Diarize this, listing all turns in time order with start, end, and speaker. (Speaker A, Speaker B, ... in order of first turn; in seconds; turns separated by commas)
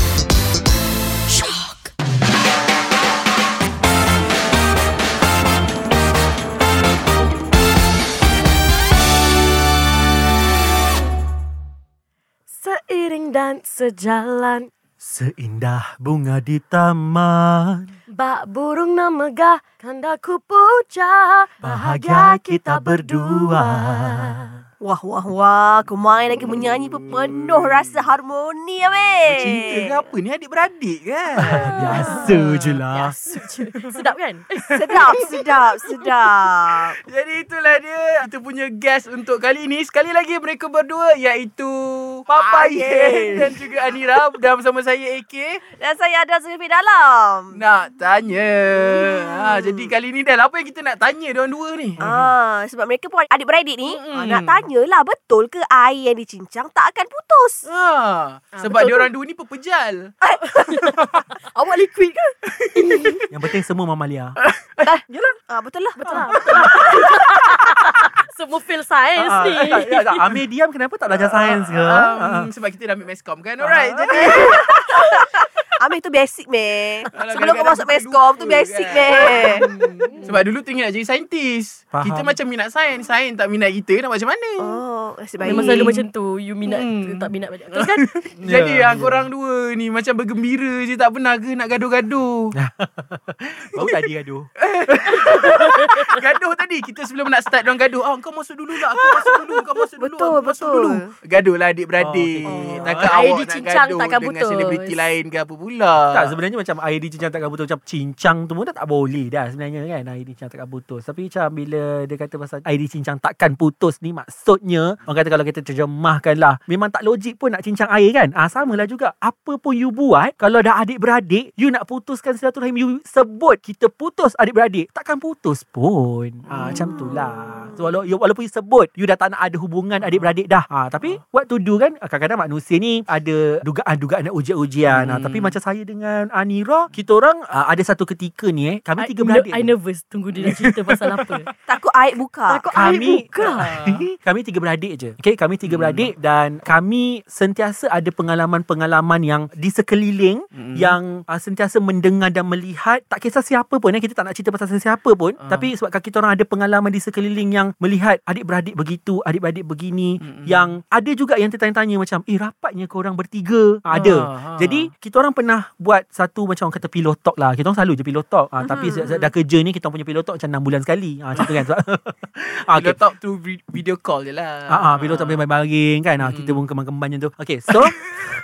Speaker A: 12.5-14.7, Speaker B: 15.0-17.9, Speaker A: 18.1-24.4, Speaker B: 21.6-24.6, Speaker C: 24.8-30.1, Speaker D: 26.4-27.9, Speaker D: 29.2-32.8, Speaker B: 31.4-33.2, Speaker A: 31.5-35.2, Speaker C: 31.8-32.2, Speaker D: 34.6-35.9, Speaker C: 34.7-37.0, Speaker D: 36.7-45.6, Speaker B: 42.3-43.5, Speaker C: 42.3-44.0, Speaker C: 45.8-47.6, Speaker D: 47.5-52.3, Speaker C: 48.7-49.9, Speaker C: 52.0-57.6, Speaker D: 53.8-54.7, Speaker D: 57.7-60.1, Speaker A: 58.5-59.0, Speaker C: 60.2-60.6, Speaker A: 60.5-63.3, Speaker D: 62.6-63.3, Speaker B: 63.3-64.4, Speaker D: 64.4-64.9, Speaker C: 64.8-66.9, Speaker B: 65.1-65.4, Speaker A: 66.0-70.2, Speaker B: 66.1-67.9, Speaker B: 69.2-72.5, Speaker D: 71.1-75.1, Speaker B: 73.6-74.6, Speaker C: 74.1-79.7, Speaker D: 77.1-84.8, Speaker A: 79.4-80.4, Speaker B: 81.9-82.4, Speaker C: 84.6-86.0, Speaker D: 85.4-86.0, Speaker A: 85.4-88.2, Speaker D: 86.7-92.5, Speaker B: 88.4-89.3, Speaker B: 92.5-96.2, Speaker D: 94.6-106.3, Speaker A: 95.1-96.1, Speaker C: 100.0-101.1, Speaker B: 102.0-103.2, Speaker C: 102.5-102.8, Speaker A: 103.1-105.1, Speaker B: 106.0-139.8, Speaker D: 126.5-126.9, Speaker C: 126.8-127.8, Speaker D: 134.9-135.6, Speaker A: 139.0-141.5, Speaker C: 141.7-142.7, Speaker A: 142.5-143.7, Speaker B: 142.7-173.0, Speaker D: 143.4-144.0, Speaker D: 145.7-146.1, Speaker D: 150.6-151.0, Speaker D: 155.4-155.7, Speaker D: 160.2-160.7, Speaker D: 163.9-164.9, Speaker C: 168.6-169.3, Speaker D: 171.4-171.6, Speaker D: 172.7-175.4, Speaker B: 174.7-178.0, Speaker D: 176.2-176.6